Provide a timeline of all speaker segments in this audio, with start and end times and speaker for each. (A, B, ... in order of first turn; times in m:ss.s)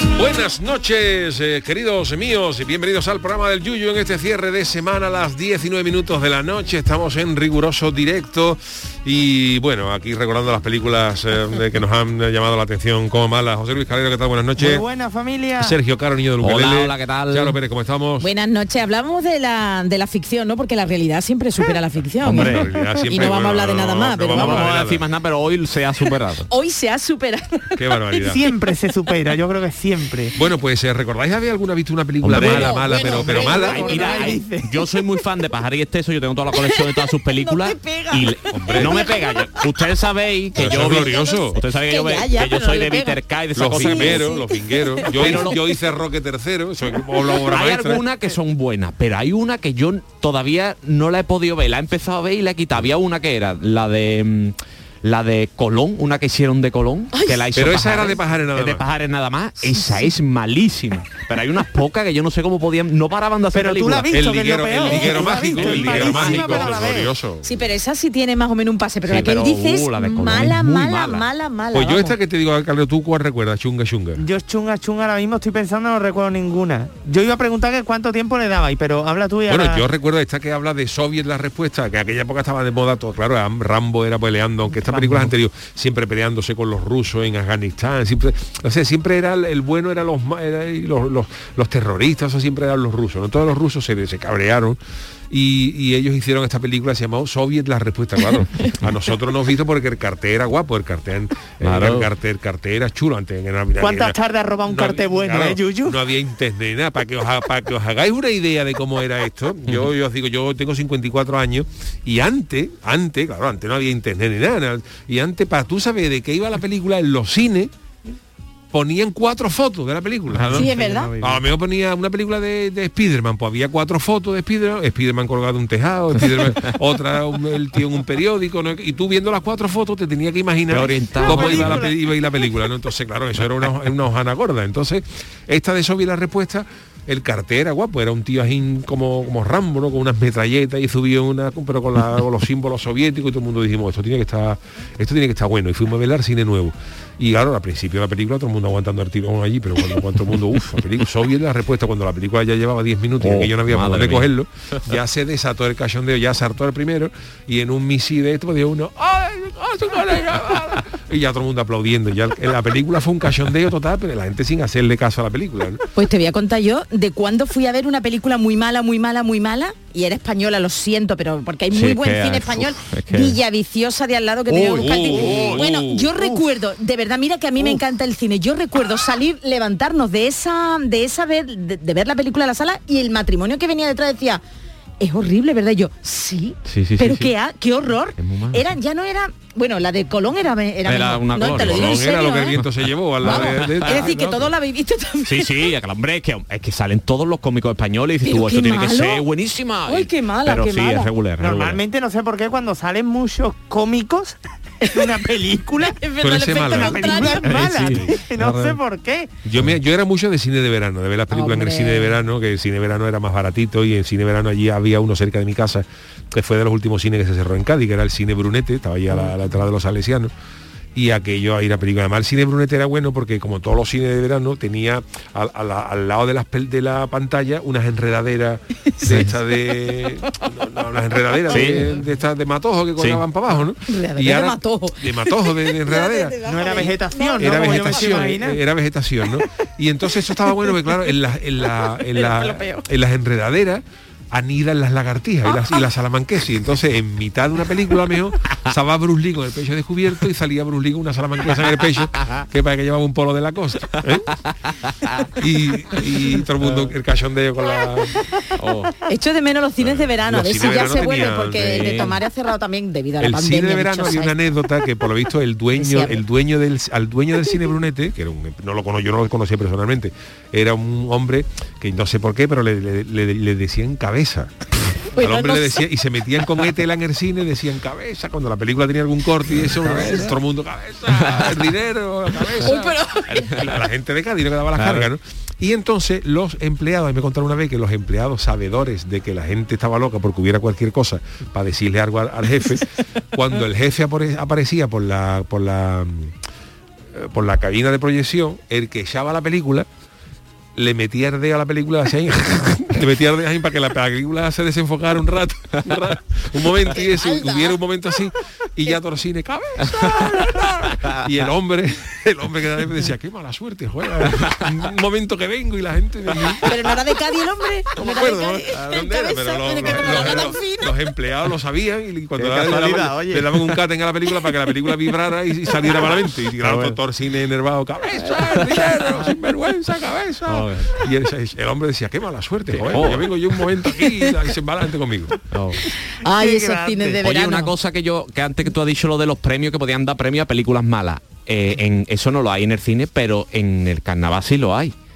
0:00.2-0:14.8 A
0:14.6-0:15.8 B
0:15.6-0:18.3 A
0:16.4-0:17.6 C
0:18.2-0:24.7 D
0:22.2-0:22.6 C
0:22.2-0:25.0 A
0:24.3-0:26.5 C
0:26.5-0:27.8 D
0:27.8-0:28.4 A
0:28.2-0:30.3 B
0:30.3-0:34.0 A
0:32.2-0:32.7 C
0:32.4-0:34.4 D
0:32.9-0:34.8 B
0:33.4-0:44.3 C
0:36.6-0:39.6 D
0:38.5-0:38.9 A
0:40.5-0:41.6 A
0:40.8-0:45.6 D
0:43.5-0:48.0 A
0:45.1-0:45.6 C
0:47.4-1:04.1 C
0:57.1-0:57.4 D
0:57.5-0:58.8 A
1:03.5-1:07.1 B
1:04.1-1:07.5 A
1:04.9-1:05.4 D
1:05.5-1:06.2 C
1:06.0-1:06.7 D
1:07.4-1:12.2 D
1:09.1-1:11.3 C
1:11.7-1:14.2 A
1:14.2-1:19.8 B
1:19.5-1:34.8 A
1:35.3-1:57.7 A
1:41.6-1:42.1 C
1:43.8-1:46.0 B
1:58.7-2:00.7 A
2:00.3-2:00.7 C
2:00.5-2:01.1 D
2:00.7-2:01.4 B
2:01.2-2:45.8 A
2:10.7-2:11.8 C
2:11.2-2:12.0 B
2:33.2-2:34.3 C
2:45.9-3:04.4 D
2:51.7-2:53.4 C
2:54.5-2:55.6 C
2:54.6-2:56.1 A
3:05.0-3:12.6 D
3:06.6-3:07.3 C
3:08.2-3:08.7 C
3:10.8-3:12.6 C
3:11.4-3:14.5 A
3:13.2-3:14.0 C
3:13.2-3:15.5 D
3:15.2-3:21.8 C
3:18.2-3:19.2 D
3:19.8-3:21.1 D
3:21.4-3:26.0 B
3:25.8-3:27.5 D
3:26.2-3:28.8 A
3:26.7-3:29.3 B
3:27.4-3:28.1 C
3:29.4-3:40.3 A
3:31.3-3:32.1 D
3:40.9-4:14.3 A
3:48.9-3:50.3 D
3:51.5-3:51.8 D
3:51.5-3:51.9 C
3:53.9-3:58.1 D
3:56.4-3:58.6 B
4:02.0-4:02.8 D
4:14.1-4:15.2 C
4:15.3-4:18.2 A
4:16.6-4:16.9 C
4:18.6-4:18.9 C
4:19.0-4:24.4 D
4:19.8-4:21.9 A
4:21.6-4:22.2 C
4:23.2-4:34.5 A
4:25.7-4:26.2 D
4:35.1-4:35.8 D
4:35.1-4:43.0 A
4:39.6-4:40.3 C
4:41.2-4:41.6 C
4:42.6-4:43.6 D
4:43.3-4:43.7 C
4:43.6-4:56.3 A
4:44.7-4:45.1 C
4:57.1-4:59.9 A
5:00.8-5:16.7 A
5:06.9-5:07.8 D
5:16.6-5:20.9 D
5:18.0-5:35.4 A
5:22.4-5:23.6 C
5:26.6-5:27.0 C
5:28.2-5:28.9 C
5:30.4-5:31.0 C
5:32.7-5:33.3 C
5:35.5-5:35.8 C
5:36.0-5:37.7 D
5:36.2-5:37.2 B
5:37.2-5:44.9 C